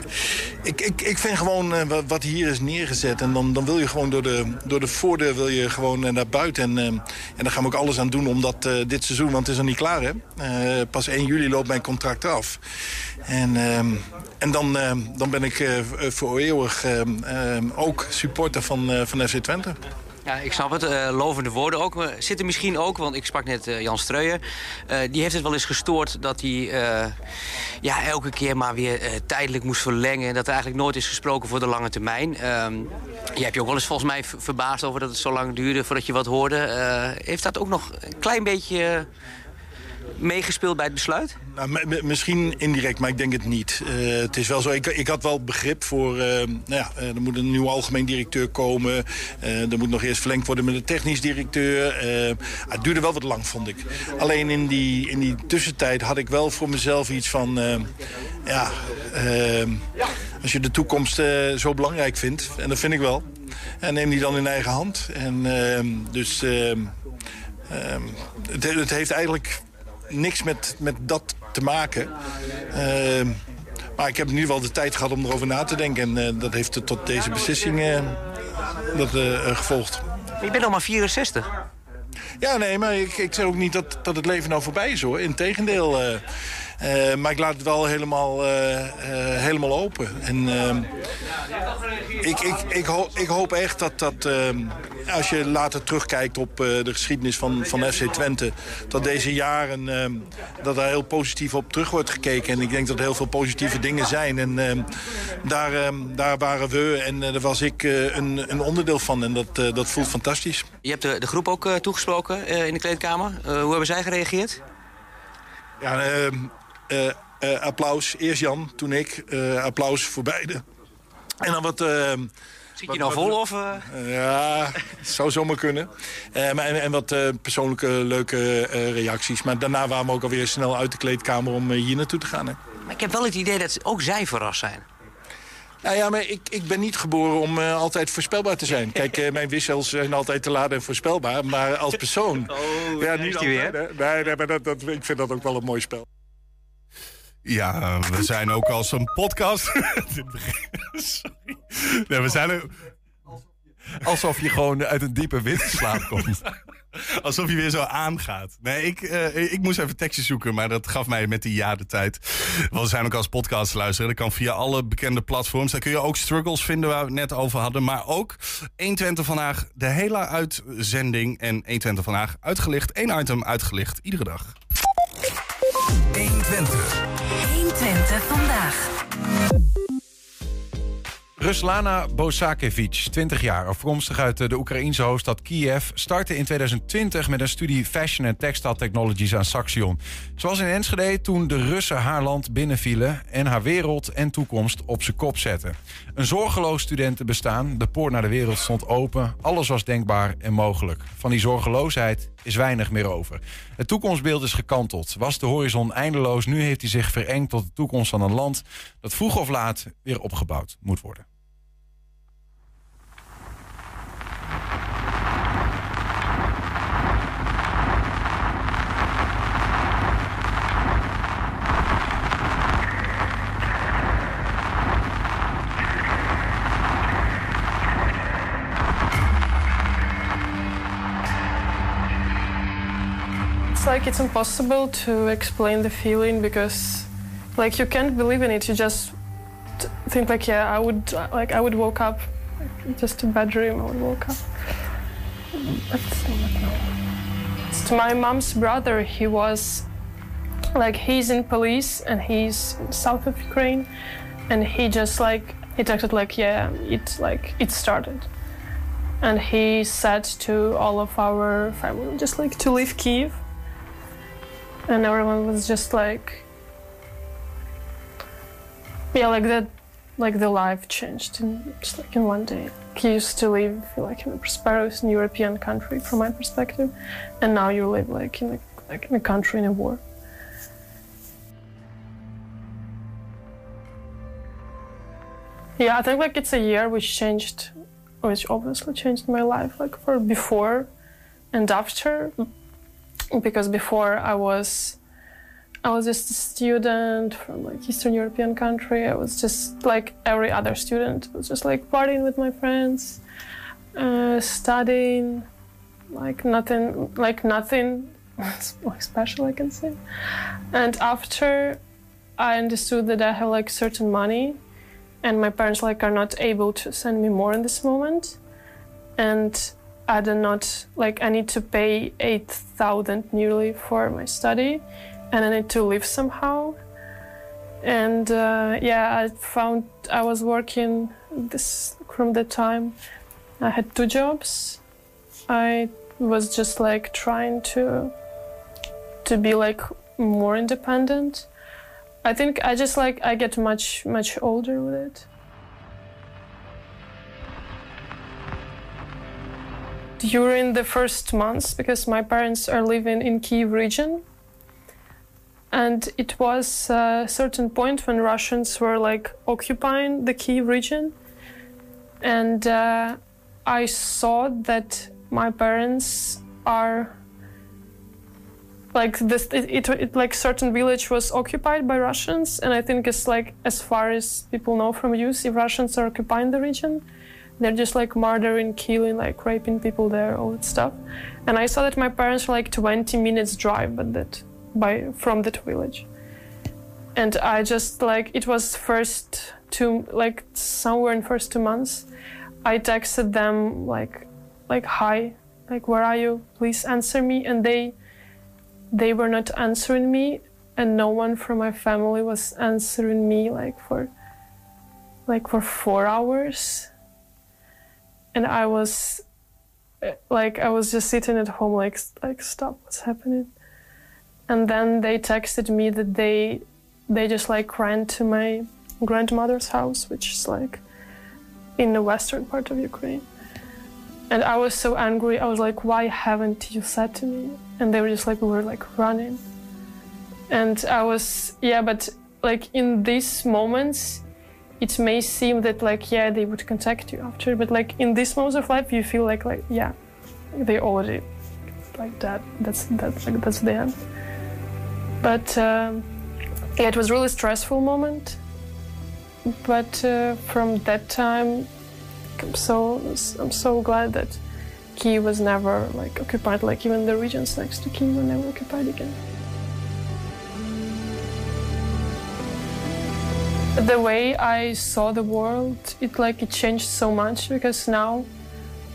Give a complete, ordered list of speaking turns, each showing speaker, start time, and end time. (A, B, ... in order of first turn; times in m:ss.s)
0:00.6-0:12.6 A
0:13.3-0:19.8 A
0:20.2-0:27.2 B
0:27.8-0:39.1 B
0:40.2-0:41.4 B
0:41.6-0:57.9 A
0:58.5-0:59.8 A
1:00.4-1:03.3 A
1:03.8-1:06.9 A
1:07.7-1:12.1 A
1:12.7-1:13.4 A
1:14.0-1:18.2 A
1:18.9-1:20.0 A
1:20.4-1:21.5 B
1:22.4-1:26.2 A
1:26.8-1:30.9 A
1:32.2-1:44.9 A
1:45.4-1:50.7 A
1:50.8-1:54.6 B
1:55.8-2:00.6 A
2:01.4-2:02.3 A
2:02.8-2:03.8 B
2:02.8-2:12.6 A
2:12.8-2:14.8 B
2:15.8-2:26.0 A
2:23.0-2:23.7 B
2:27.4-2:32.7 C
2:34.0-2:36.4 D
2:37.0-2:54.5 C
2:56.1-2:58.9 E
3:01.4-3:31.2 D
3:53.7-3:59.1 F
3:59.8-4:04.5 F
4:05.5-4:06.9 F
4:07.7-4:09.8 F
4:10.7-4:13.9 F
4:14.5-4:18.3 F
4:19.2-4:23.4 F
4:24.9-4:26.4 F
4:29.1-4:40.0 F
4:45.8-4:50.9 F
4:51.5-4:52.3 F
4:53.3-4:55.0 F
4:55.8-5:03.2 F
5:03.9-5:05.4 F
5:06.1-5:10.0 F
5:10.7-5:11.8 F
5:12.4-5:14.6 F
5:15.2-5:18.4 F
5:19.2-5:26.8 F
5:27.8-5:33.0 F
5:33.6-5:34.8 F
5:35.5-5:38.1 F
5:39.2-5:41.5 F
5:42.2-5:45.2 F
5:50.2-5:54.2 F
5:55.7-6:01.1 F
6:02.2-6:07.1 F
6:08.9-6:17.0 F
6:17.6-6:26.1 F
6:27.2-6:32.1 F
6:32.6-6:37.9 F
6:38.9-6:44.1 F
6:45.3-6:46.9 F
6:48.3-6:49.2 F
6:50.0-6:53.5 F
6:54.5-7:00.8 F
7:01.8-7:03.2 F
7:04.3-7:09.4 F
7:10.5-7:14.2 F
7:14.8-7:19.9 F
7:20.5-7:21.2 F
7:21.9-7:24.0 F
7:25.2-7:26.1 F
7:26.8-7:28.4 F
7:29.6-7:31.7 F
7:32.4-7:34.4 F
7:34.9-7:39.2 F
7:43.8-7:48.3 F